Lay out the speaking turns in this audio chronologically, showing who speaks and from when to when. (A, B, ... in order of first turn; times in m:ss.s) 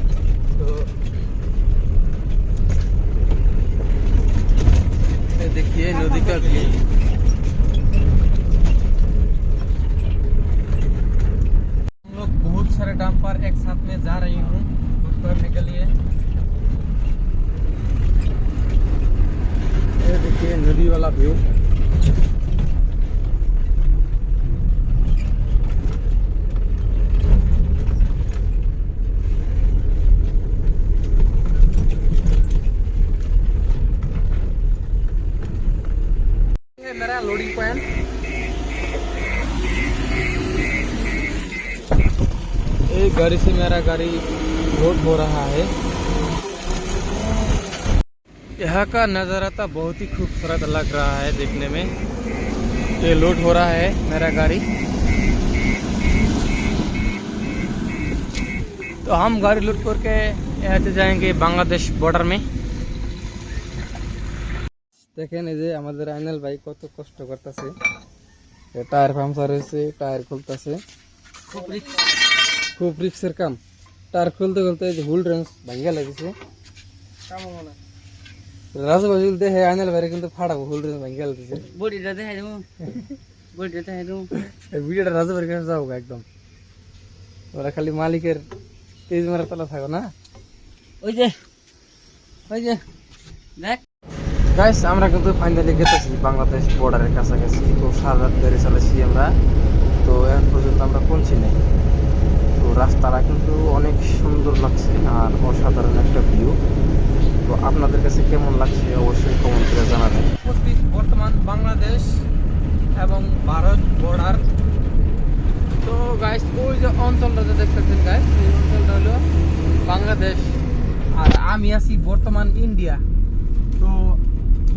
0:00.6-0:00.9 A
0:05.2-0:06.8 A
0:12.0-0:16.0 A
0:20.0-0:21.5 A
0:36.8-0:37.8 A
0:42.9-0:45.7 A
0:48.6-0:51.9 A
0:53.0-0:54.7 A
0:59.0-1:02.4 A
1:05.2-1:07.8 A
1:08.7-1:10.8 A
1:11.5-1:11.8 B
1:12.8-1:13.6 A
1:14.1-1:16.3 A
1:17.3-1:17.7 B
1:18.7-1:21.7 A
1:21.7-1:22.7 B
1:22.8-1:23.2 A
1:23.5-1:24.3 B
1:24.3-1:26.2 A
1:27.5-1:28.5 A
1:29.1-1:30.1 A
1:31.0-1:31.4 B
1:32.5-1:32.8 A
1:33.6-1:33.8 B
1:34.5-1:39.4 A
1:40.0-1:41.6 A
1:42.6-1:46.6 A
1:47.4-1:52.3 A
1:53.0-1:54.5 A
1:55.8-1:59.2 A
1:59.8-2:00.6 A
2:01.1-2:03.0 A
2:03.8-2:04.2 A